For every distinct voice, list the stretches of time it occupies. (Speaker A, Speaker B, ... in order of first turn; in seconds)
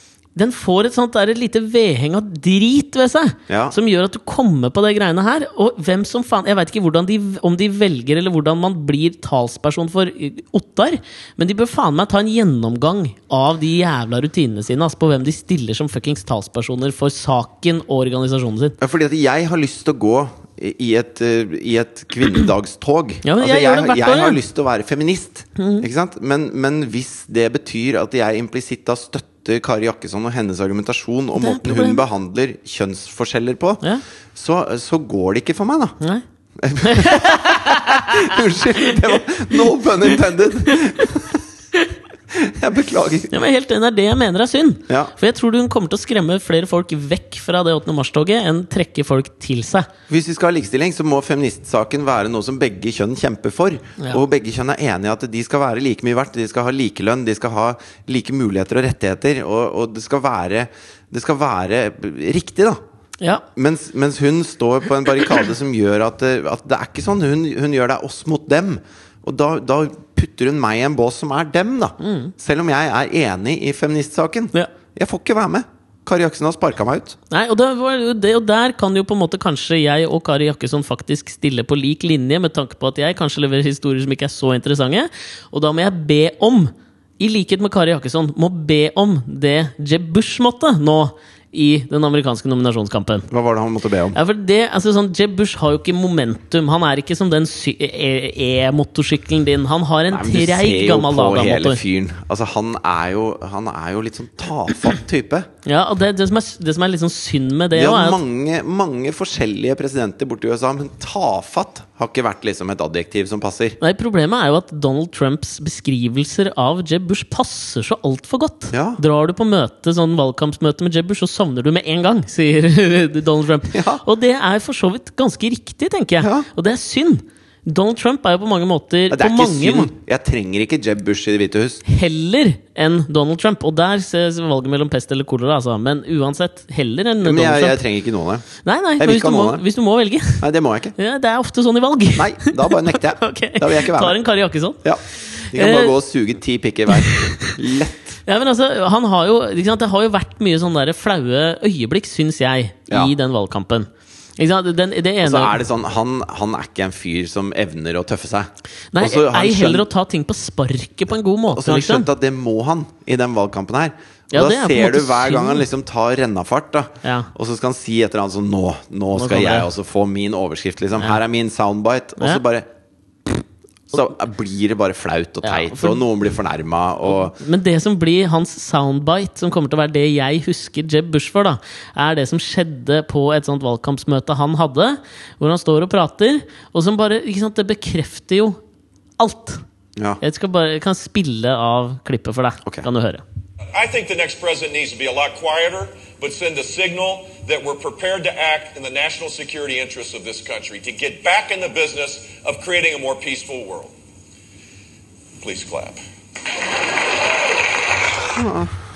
Speaker A: 0.3-18.8, 23.2-24.4, 25.6-25.9, 31.4-32.0, 36.8-38.3, 40.7-41.0, 43.3-49.9, 63.2-63.5, 72.0-72.3, 77.3-93.3, 94.1-101.8, 105.7-108.2, 113.8-129.9, 131.8-137.8, 138.6-140.4, 141.0-145.9, 146.9-147.5, 148.3-155.6, 158.9-162.1, 164.3-165.7, 167.0-167.3, 169.2-169.7, 175.4-176.0, 177.1-188.6, 189.2-189.6, 190.2-193.2
Speaker B: 3.5-3.8, 18.8-33.8, 34.3-36.0, 36.6-41.4, 42.3-43.3, 50.1-62.8, 63.5-77.2, 93.3-94.2, 100.1-105.5, 107.7-113.8, 118.7-119.0, 123.7-124.0, 126.2-126.5, 129.1-131.8, 137.2-138.5, 139.0-139.7, 140.4-140.9, 142.2-144.2, 144.8-148.2, 155.2-159.9, 161.5-172.7, 173.9-177.4, 208.3-208.8
Speaker C: 193.7-203.9, 205.4-206.0